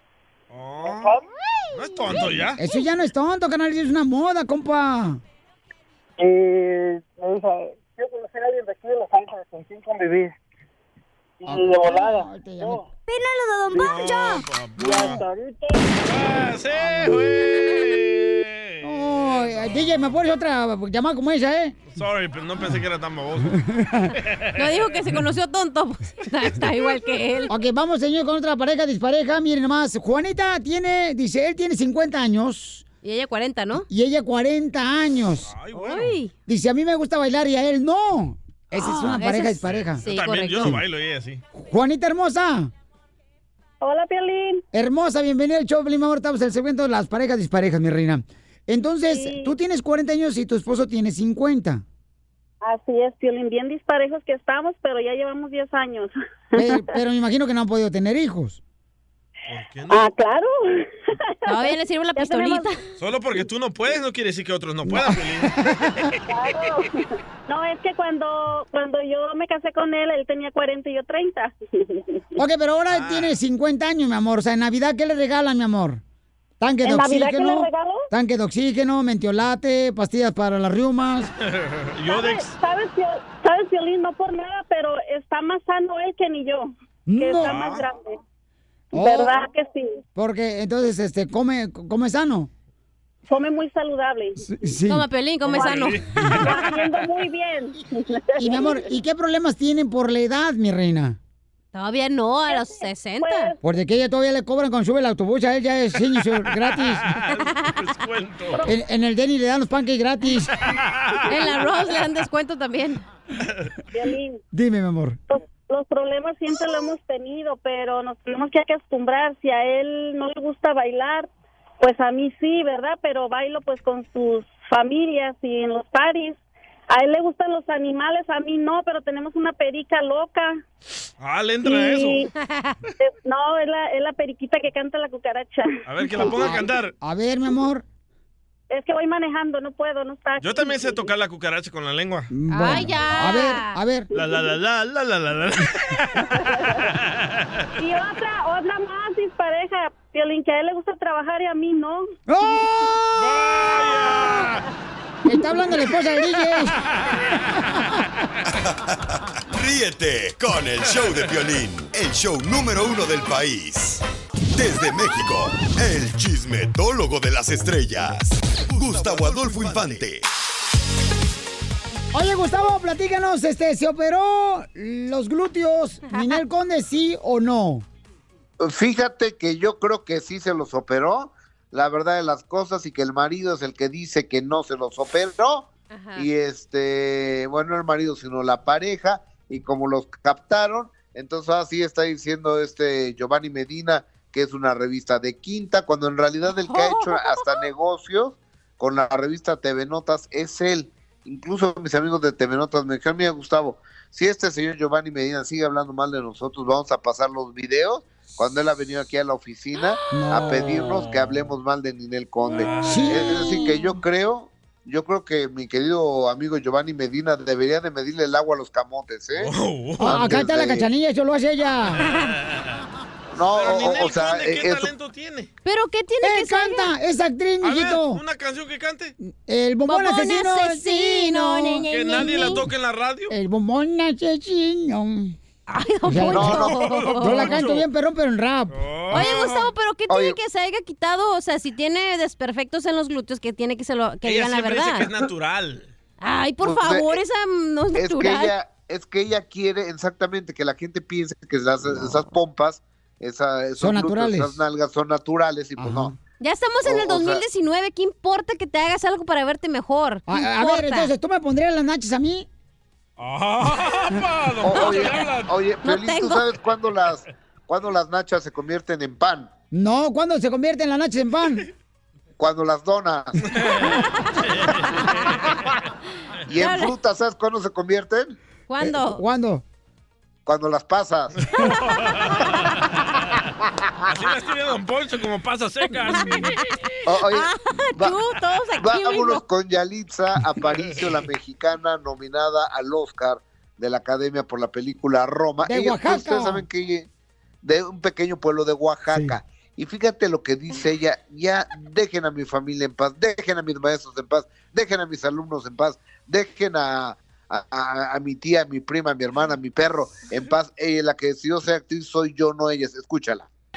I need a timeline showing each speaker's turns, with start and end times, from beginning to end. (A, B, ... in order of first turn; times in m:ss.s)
0:00.5-0:01.1 A
0:00.8-0:01.2 B
0:01.7-0:02.6 A
0:02.6-0:05.2 C
0:06.2-0:10.4 B
0:11.4-0:12.9 B
0:11.5-0:12.8 C
0:13.7-0:14.0 B
0:13.8-0:15.2 A
0:14.8-0:16.0 B
0:16.0-0:19.6 A
0:17.6-0:18.0 D
0:18.8-0:21.8 C
0:21.9-0:23.6 A
0:23.5-0:24.1 C
0:24.2-0:25.2 A
0:24.6-0:27.5 D
0:27.5-0:32.9 C
0:33.0-0:33.9 D
0:33.9-0:35.5 C
0:35.5-0:36.2 A
0:35.7-0:36.3 D
0:36.5-0:40.0 C
0:38.8-0:40.8 D
0:39.7-0:41.4 A
0:41.6-0:42.7 C
0:43.8-0:44.6 E
0:44.7-0:51.8 C
0:49.1-0:49.5 E
0:52.6-0:56.9 E
0:56.6-0:58.6 C
0:59.5-1:00.1 A
0:59.9-1:02.7 E
1:01.5-1:02.8 D
1:03.0-1:06.1 A
1:04.8-1:06.1 C
1:06.3-1:12.0 E
1:12.4-1:16.0 C
1:12.9-1:13.4 A
1:16.6-1:21.3 C
1:16.8-1:18.0 E
1:21.4-1:22.6 A
1:22.1-1:28.2 E
1:27.1-1:27.6 C
1:27.4-1:27.9 A
1:28.9-1:29.4 C
1:28.9-1:30.0 E
1:30.2-1:32.5 C
1:33.3-1:34.4 E
1:34.4-1:35.0 C
1:34.8-1:36.6 D
1:35.4-1:36.9 A
1:36.4-1:38.9 E
1:38.4-1:41.2 C
1:41.7-1:43.5 D
1:42.5-1:43.6 E
1:43.6-1:47.1 C
1:46.5-1:48.6 A
1:48.6-1:50.5 C
1:50.7-1:51.2 A
1:51.3-1:53.0 D
1:53.9-1:54.4 E
1:54.5-1:55.2 C
1:55.3-2:01.3 E
2:01.8-2:10.6 E
2:11.2-2:12.3 A
2:11.6-2:12.3 E
2:12.4-2:12.8 D
2:13.0-2:15.8 E
2:15.9-2:16.9 A
2:16.1-2:17.8 C
2:18.7-2:21.0 E
2:20.4-2:22.3 A
2:22.3-2:24.1 C
2:22.5-2:23.8 D
2:24.1-2:27.6 A
2:27.8-2:32.1 E
2:32.3-2:32.7 C
2:33.2-2:34.6 A
2:35.2-2:36.8 C
2:37.1-2:37.5 A
2:38.6-2:39.0 F
2:39.5-2:44.0 F
2:44.6-2:50.2 F
2:52.1-2:57.9 C
2:56.1-2:56.4 D
2:58.6-3:40.9 G
3:05.9-3:06.3 D
3:16.5-3:17.6 D
3:30.1-3:30.8 C
3:30.4-3:31.4 A
3:32.5-3:33.5 A
3:32.8-3:33.7 C
3:39.4-3:40.2 A
3:40.0-3:42.0 C
3:42.0-3:42.8 A
3:43.3-3:44.9 G
3:43.5-3:45.5 A
3:45.6-3:46.9 D
3:46.2-3:48.2 C
3:47.6-3:49.1 A
3:49.2-3:51.9 C
3:49.9-3:52.7 D
3:51.9-3:53.3 A
3:53.3-3:55.4 C
3:55.7-3:57.6 D
3:56.0-3:58.8 C
3:56.3-3:56.8 G
3:56.5-3:57.8 A
3:58.7-3:59.7 A
3:59.1-4:05.1 D
4:00.1-4:00.4 G
4:04.2-4:05.9 A
4:06.2-4:08.6 D
4:06.6-4:07.2 G
4:07.9-4:16.2 G
4:13.8-4:14.6 C
4:15.8-4:16.2 C
4:16.4-4:21.1 D
4:16.8-4:17.4 G
4:20.3-4:22.5 C
4:23.2-4:25.5 A
4:24.6-4:29.5 G
4:24.7-4:25.1 D
4:25.8-4:26.4 D
4:29.7-4:31.7 C
4:32.4-4:33.5 G
4:33.5-4:35.5 A
4:36.5-4:38.4 G
4:36.5-4:37.0 D
4:38.7-4:39.2 D
4:38.8-4:39.6 C
4:40.5-4:41.4 G
4:41.5-4:43.4 A
4:44.1-4:46.6 A
4:45.9-4:46.6 D
4:47.1-4:48.2 G
4:47.2-4:49.4 D
4:48.8-4:57.1 G
4:55.6-4:56.6 C
4:57.6-5:13.5 G
4:59.1-4:59.4 C